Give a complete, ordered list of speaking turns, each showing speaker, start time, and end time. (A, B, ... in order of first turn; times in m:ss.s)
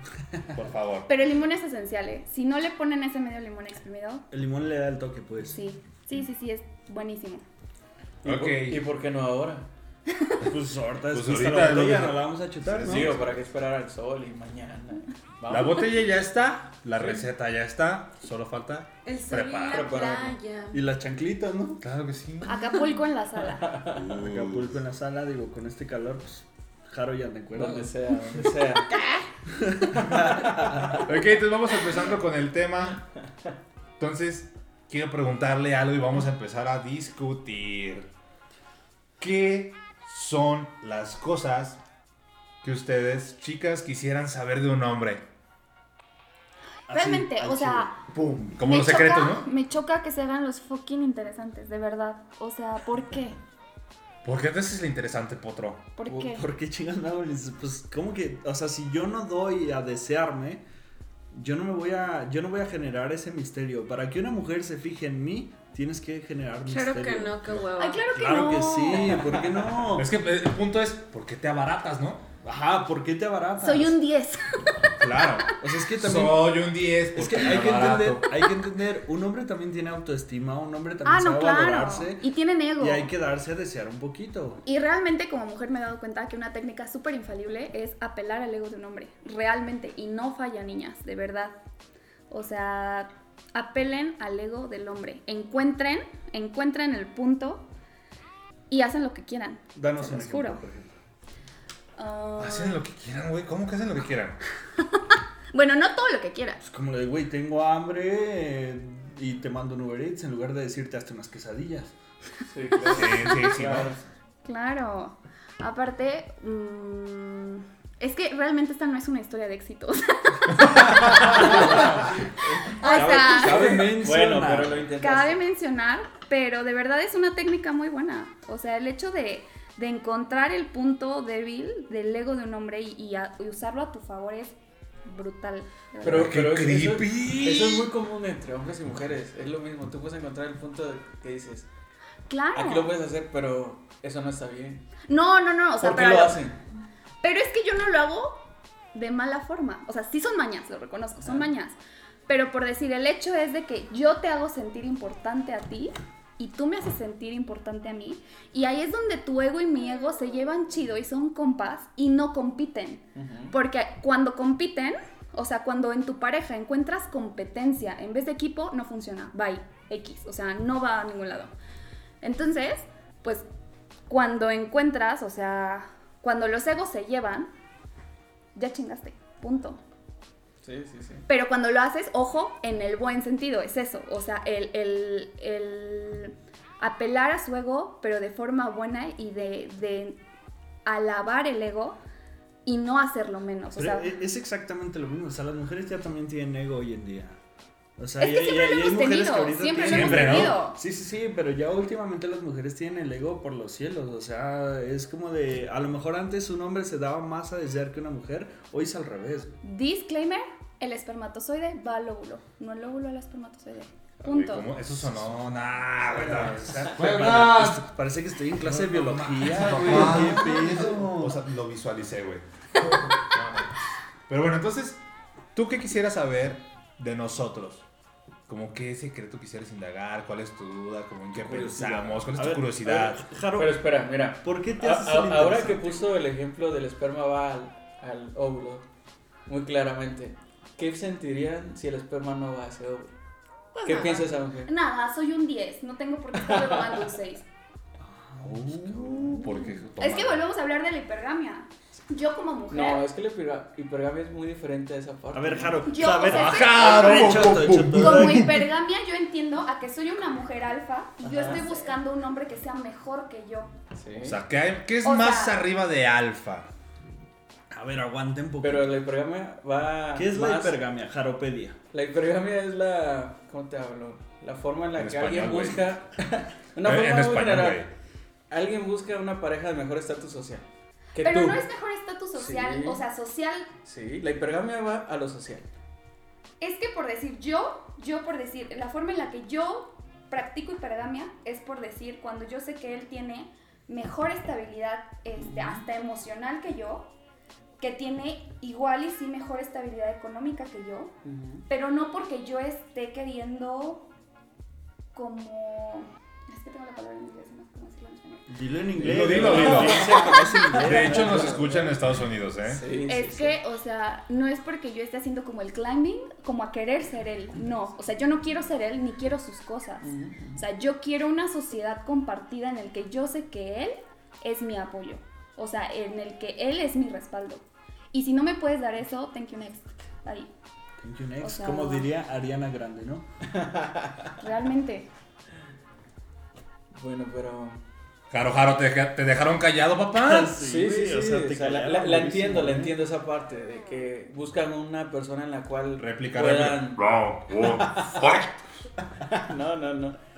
0:00.5-0:01.1 A
0:01.1-0:04.2 B
0:04.3-0:05.6 C
0:05.5-0:07.4 B
0:08.2-0:08.8 A
0:08.2-0:09.7 D
0:10.4-0:13.1 C
0:11.1-0:13.4 A
0:12.8-0:15.8 D
0:15.4-0:19.9 A
0:19.0-0:20.8 E
0:19.7-0:20.4 D
0:20.7-0:21.8 C
0:21.8-0:22.8 A
0:22.4-0:23.8 B
0:23.6-0:24.0 D
0:23.9-0:28.5 C
0:24.0-0:24.7 A
0:27.5-0:28.9 D
0:28.8-0:29.2 E
0:29.5-0:31.0 C
0:31.0-0:33.0 A
0:34.0-0:38.1 A
0:39.2-0:41.8 A
0:42.6-0:45.2 A
0:46.9-0:48.0 B
0:46.9-0:48.6 C
0:48.5-0:49.5 A
0:48.6-0:53.4 B
0:54.2-0:55.9 A
0:56.0-0:56.4 B
0:56.1-1:00.6 C
1:01.3-1:07.6 C
1:06.7-1:08.1 E
1:07.8-1:09.3 B
1:08.1-1:10.1 C
1:09.9-1:12.2 A
1:12.4-1:14.0 C
1:13.6-1:14.9 B
1:15.0-1:18.3 A
1:15.6-1:16.6 C
1:17.1-1:22.2 C
1:21.0-1:23.1 B
1:22.8-1:24.6 C
1:24.6-1:31.6 B
1:32.3-1:37.7 B
1:38.7-1:40.6 B
1:39.7-1:41.0 C
1:42.0-1:42.8 B
1:42.4-1:44.4 A
1:45.5-1:46.6 B
1:46.6-1:51.9 C
1:52.5-1:54.0 D
1:52.9-1:53.9 A
1:54.4-2:02.0 B
2:00.7-2:01.8 A
2:01.3-2:02.0 D
2:01.4-2:02.1 C
2:02.6-2:03.9 B
2:02.7-2:05.4 D
2:02.8-2:04.9 C
2:05.0-2:16.4 B
2:16.0-2:21.7 D
2:16.0-2:17.9 A
2:22.3-2:22.9 B
2:22.5-2:24.8 D
2:25.1-2:26.4 B
2:25.8-2:26.6 D
2:27.2-2:31.8 B
2:31.2-2:31.4 D
2:32.3-2:51.5 B
2:43.2-2:43.5 D
2:52.2-2:53.5 B
2:54.1-2:57.5 B
2:58.5-2:59.8 B
3:00.6-3:01.2 D
3:01.3-3:10.2 B
3:10.8-3:12.0 B
3:12.6-3:14.1 B
3:13.8-3:17.4 C
3:18.0-3:29.6 C
3:18.2-3:20.8 B
3:19.8-3:20.6 A
3:29.6-3:34.7 B
3:34.2-3:37.9 A
3:36.0-3:41.4 C
3:38.6-3:43.7 A
3:39.5-3:40.5 D
3:44.3-3:45.0 A
3:45.5-3:47.8 A
3:48.5-3:53.2 A
3:51.4-3:53.8 C
3:53.5-3:58.8 D
3:54.4-3:56.1 C
3:59.5-4:03.1 D
4:03.7-4:04.3 E
4:03.8-4:04.7 D
4:04.6-4:07.4 B
4:06.4-4:07.0 D
4:08.0-4:09.5 C
4:08.4-4:10.4 A
4:10.0-4:13.0 B
4:12.7-4:15.9 D
4:15.3-4:18.5 C
4:15.9-4:23.7 B
4:16.2-4:18.6 A
4:21.2-4:21.8 D
4:23.9-4:24.4 D
4:24.2-4:26.7 A
4:25.0-4:25.6 B
4:27.7-4:28.9 C
4:28.6-4:30.8 D
4:30.1-4:31.8 C
4:31.9-4:37.8 D
4:34.9-4:35.9 A
4:36.8-4:37.9 A
4:38.5-4:41.6 D
4:41.2-4:43.7 B
4:42.4-4:43.0 D
4:43.8-4:45.7 D
4:46.6-4:57.1 B
4:55.4-4:55.8 D
4:57.8-5:01.1 B
5:01.2-5:01.6 D
5:01.7-5:04.1 B
5:05.1-5:08.5 B
5:08.5-5:12.0 C
5:09.0-5:12.8 A
5:09.2-5:11.6 D
5:12.6-5:13.6 D
5:13.0-5:30.5 B
5:20.0-5:20.6 D
5:31.0-5:33.2 C
5:31.4-5:32.1 B
5:33.5-5:34.3 D
5:34.4-5:35.1 B
5:36.9-5:37.8 D
5:38.3-5:40.6 A
5:40.2-5:43.0 C
5:40.6-5:48.4 D
5:46.0-5:48.5 A
5:49.3-5:50.2 D